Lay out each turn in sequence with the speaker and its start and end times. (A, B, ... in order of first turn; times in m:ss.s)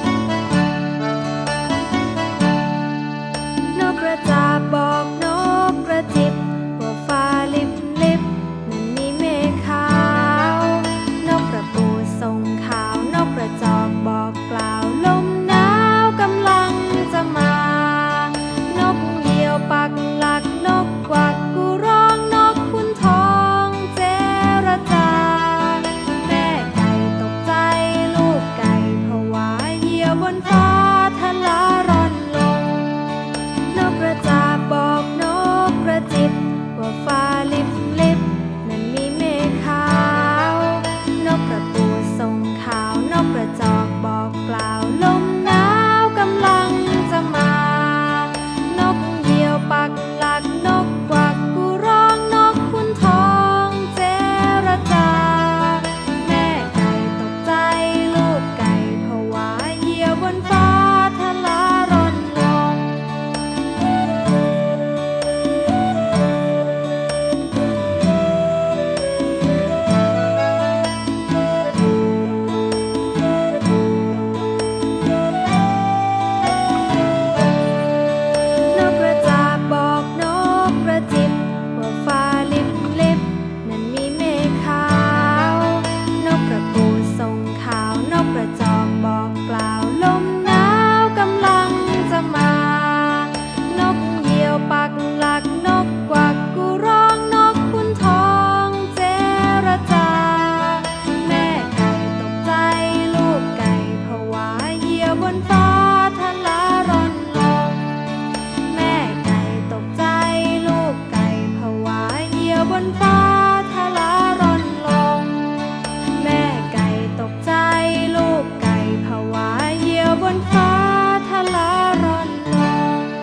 0:03.7-0:33.1 A
0:33.7-1:03.0 A
1:18.7-1:47.9 A
1:48.7-1:55.5 A
1:56.2-2:02.7 A